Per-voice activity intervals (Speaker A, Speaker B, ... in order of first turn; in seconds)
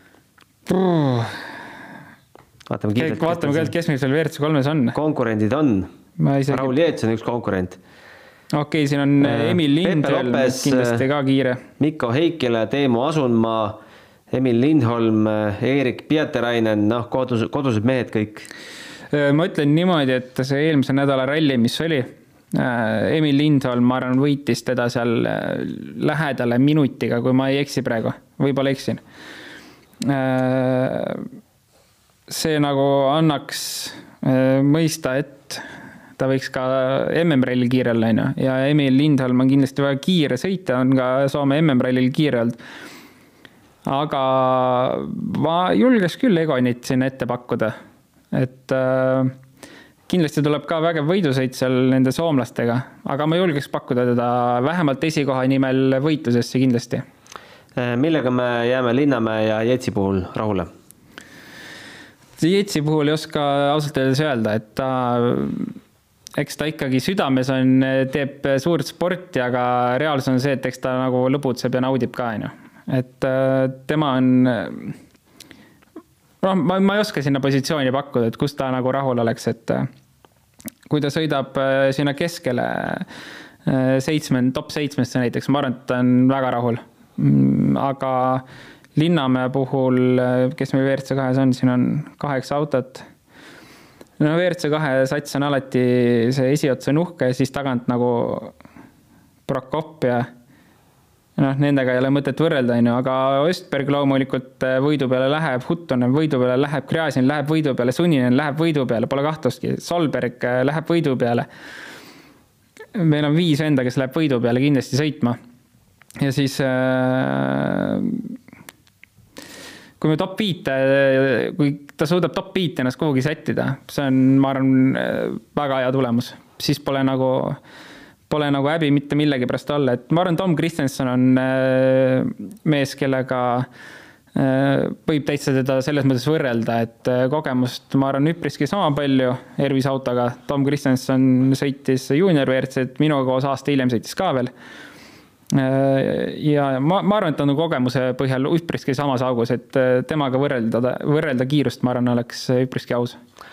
Speaker A: 0.7-1.4, 3.0-5.0, 6.2-6.7, 8.5-11.6, 19.1-29.0, 30.0-31.2, 32.3-35.6, 36.2-42.6, 43.9-47.7, 48.3-49.3, 50.1-57.0, 62.4-65.7, 66.4-74.9, 76.4-79.9, 80.9-83.1, 83.7-88.4, 88.9-93.0, 94.2-98.5, 99.5-100.3, 101.4-111.5, 112.9-115.4, 116.2-118.3, 120.0-127.6, 128.3-133.7, 134.3-144.5, 145.5-153.2
Speaker B: 2.7-3.7, 4.9-5.9, 6.5-7.8, 9.2-11.0, 11.8-13.8, 14.3-18.5, 57.8-60.7